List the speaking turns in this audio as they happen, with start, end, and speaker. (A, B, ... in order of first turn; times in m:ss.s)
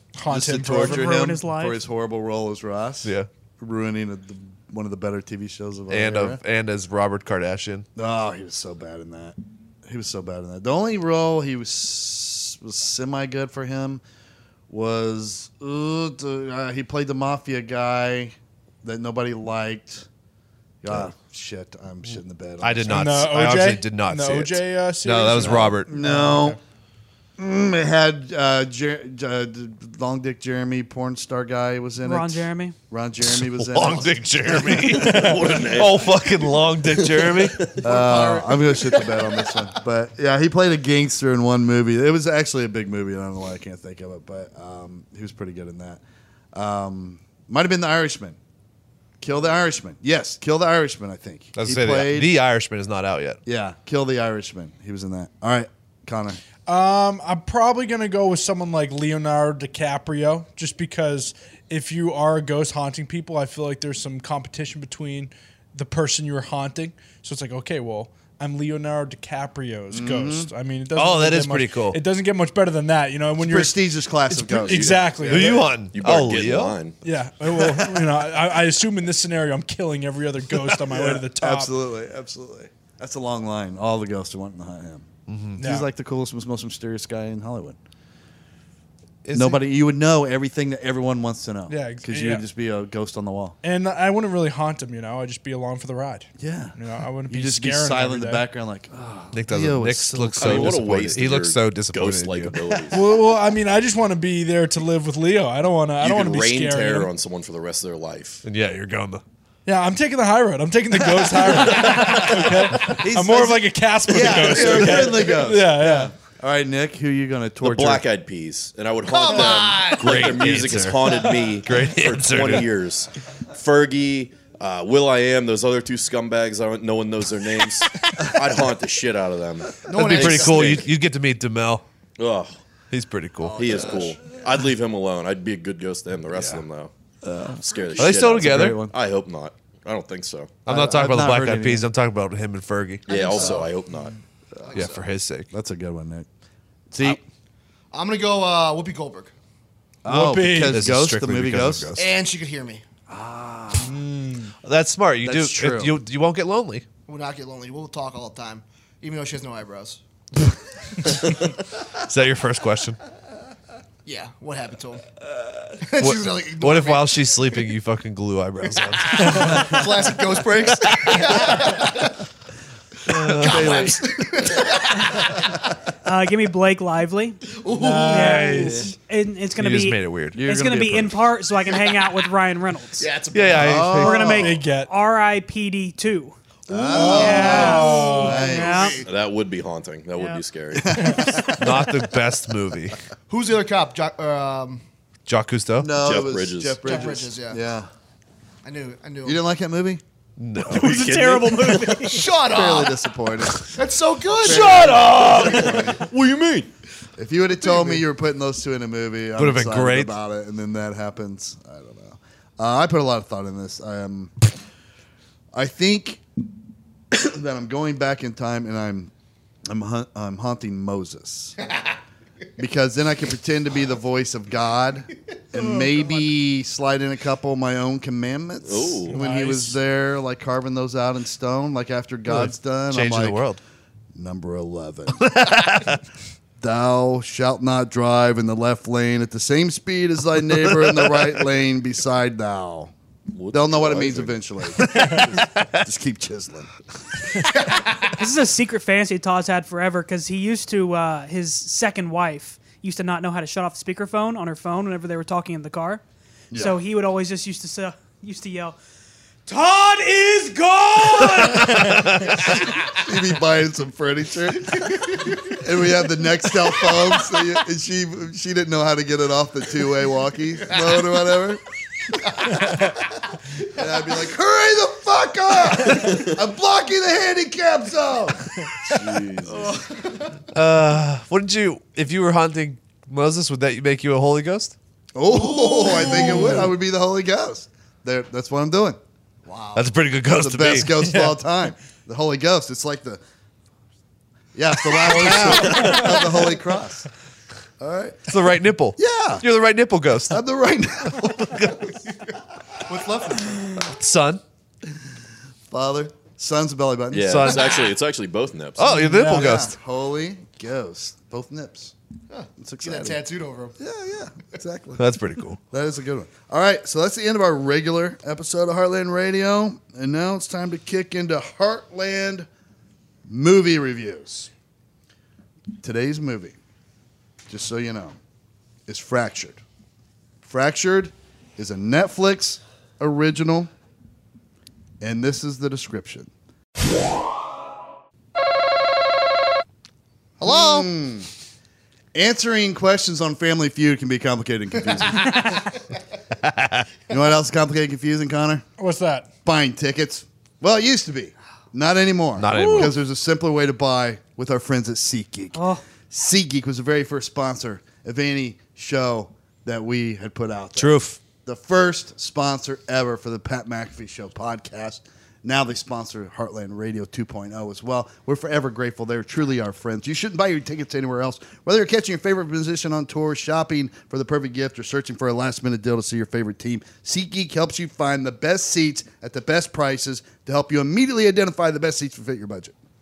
0:00.1-0:01.2 A
0:00.3-0:06.4 B
0:00.7-0:01.8 C
0:05.9-0:07.9 D
0:08.0-0:14.0 B
0:14.7-0:20.1 B
0:20.8-0:23.3 B
0:22.6-0:25.9 D
0:22.9-0:26.6 A
0:25.9-0:26.6 B
0:27.4-0:35.3 B
0:32.0-0:32.8 C
0:33.2-0:37.7 D
0:34.9-0:36.3 E
0:36.8-0:37.8 E
0:37.8-0:46.0 B
0:37.8-0:39.7 F
0:46.5-0:48.4 B
0:49.2-0:52.4 B
0:51.6-0:53.4 D
0:53.4-0:56.4 B
0:56.6-1:15.8 A
1:09.9-1:10.5 B
1:10.9-1:12.0 D
1:13.4-1:15.5 B
1:14.6-1:17.0 E
1:15.2-1:16.8 D
1:17.0-1:21.7 A
1:17.5-1:18.1 B
1:20.9-1:25.0 B
1:25.3-1:25.6 D
1:25.6-1:25.9 A
1:25.6-1:27.8 B
1:29.2-1:29.6 D
1:29.3-1:33.6 B
1:31.7-1:32.4 A
1:33.6-1:38.4 A
1:36.4-1:36.8 B
1:37.3-1:40.8 B
1:39.3-1:42.8 D
1:40.4-1:43.0 E
1:42.9-1:47.1 A
1:46.0-1:48.4 E
1:48.4-1:49.2 D
1:49.6-1:56.1 A
1:51.6-1:58.0 B
1:51.8-1:53.4 D
1:57.6-2:10.9 E
1:59.0-2:00.5 F
2:00.0-2:02.7 D
2:09.8-2:10.8 F
2:09.9-2:11.8 D
2:12.2-2:12.6 E
2:12.9-2:13.8 D
2:13.6-2:16.9 E
2:16.4-2:16.6 D
2:17.2-2:18.9 B
2:17.6-2:20.6 E
2:18.0-2:18.8 D
2:20.6-2:23.0 D
2:20.7-2:21.8 B
2:23.1-2:23.8 F
2:23.1-2:24.1 E
2:24.6-2:25.1 F
2:24.7-2:25.5 D
2:25.5-2:26.2 B
2:26.9-2:27.2 B
2:27.9-2:29.3 F
2:30.0-2:31.9 B
2:30.1-2:30.9 A
2:30.6-2:32.0 D
2:31.9-2:32.8 F
2:33.1-2:34.0 B
2:33.7-2:34.5 A
2:34.6-2:36.8 D
2:35.2-2:36.0 B
2:37.1-2:40.0 F
2:42.0-2:43.0 D
2:44.0-2:45.0 F
2:45.8-2:47.6 F
2:46.0-2:49.8 D
2:48.8-2:52.1 F
2:51.1-2:51.5 D
2:53.1-2:54.0 D
2:53.1-2:55.5 F
2:53.5-2:53.9 B
2:56.0-2:57.5 C
2:57.5-2:58.6 F
2:57.7-2:58.8 A
2:58.0-3:03.1 C
2:58.2-2:58.8 D
2:58.6-2:58.9 B
2:59.6-3:00.4 D
3:00.3-3:01.2 B
3:01.8-3:02.1 F
3:03.0-3:03.9 F
3:03.3-3:04.4 D
3:03.5-3:04.6 B
3:03.9-3:09.0 C
3:04.4-3:04.9 A
3:06.7-3:09.0 B
3:06.8-3:09.1 F
3:06.9-3:08.4 A
3:09.0-3:11.3 E
3:10.8-3:11.9 B
3:10.9-3:11.4 A
3:11.6-3:13.0 D
3:13.3-3:14.8 F
3:15.3-3:15.9 D
3:15.8-3:17.9 B
3:16.0-3:16.9 E
3:16.8-3:17.6 F
3:18.6-3:19.4 F
3:19.2-3:20.0 B
3:20.4-3:21.3 D
3:20.6-3:22.4 C
3:20.8-3:22.0 E
3:22.0-3:23.0 F
3:22.4-3:23.7 B
3:23.7-3:26.1 F
3:24.4-3:25.9 B
3:24.7-3:26.5 E
3:25.0-3:25.6 D
3:27.2-3:34.3 B
3:27.6-3:28.0 F
3:29.4-3:30.1 D
3:35.5-3:36.2 B
3:37.1-3:39.1 B
3:39.7-3:41.6 B
3:42.6-3:53.4 B
3:48.6-3:49.2 E
3:49.1-3:49.8 A
3:52.3-3:53.6 D
3:54.1-3:55.4 B
3:55.2-3:56.0 D
3:56.6-4:02.9 B
4:00.6-4:01.3 D
4:03.3-4:04.4 E
4:03.5-4:06.7 B
4:04.8-4:05.6 D
4:08.1-4:16.0 C
4:16.5-4:16.8 B
4:16.5-4:18.8 C
4:19.4-4:22.6 C
4:21.2-4:22.5 D
4:22.9-4:31.6 B
4:24.9-4:25.5 F
4:26.9-4:27.4 F
4:30.7-4:31.2 F
4:33.6-4:39.6 B
4:38.9-4:39.7 E
4:39.5-4:40.4 F
4:40.5-4:44.7 D
4:45.1-4:49.0 B
4:45.3-4:46.6 F
4:49.4-4:49.9 F
4:49.7-4:51.3 D
4:50.3-4:53.2 B
4:54.5-4:57.1 B
4:54.9-4:56.0 D
4:57.8-4:58.3 B
4:58.3-5:00.4 D
4:59.0-4:59.4 B
5:00.3-5:01.7 B
5:01.1-5:01.8 D
5:02.8-5:03.8 F
5:03.7-5:04.4 D
5:05.7-5:07.5 B
5:07.1-5:09.0 E
5:07.2-5:07.7 D
5:08.8-5:09.7 D
5:08.9-5:09.5 A
5:09.1-5:11.9 B
5:12.3-5:13.7 F
5:12.6-5:13.2 B
5:13.8-5:15.0 B
5:15.0-5:15.6 D
5:15.7-5:22.5 B
5:23.3-5:24.5 B
5:25.8-5:26.6 B
5:27.5-5:28.2 B
5:28.9-5:29.6 B
5:30.4-5:33.7 B
5:35.0-5:36.3 B
5:40.4-5:41.3 B
5:40.5-5:40.8 D
5:42.1-5:45.6 B
5:46.3-5:46.8 D
5:47.1-5:48.6 B
5:48.8-5:49.3 A
5:49.4-6:22.7 B
5:52.4-5:52.9 D
5:52.5-5:52.9 C
5:55.5-5:55.8 C
6:00.8-6:01.2 D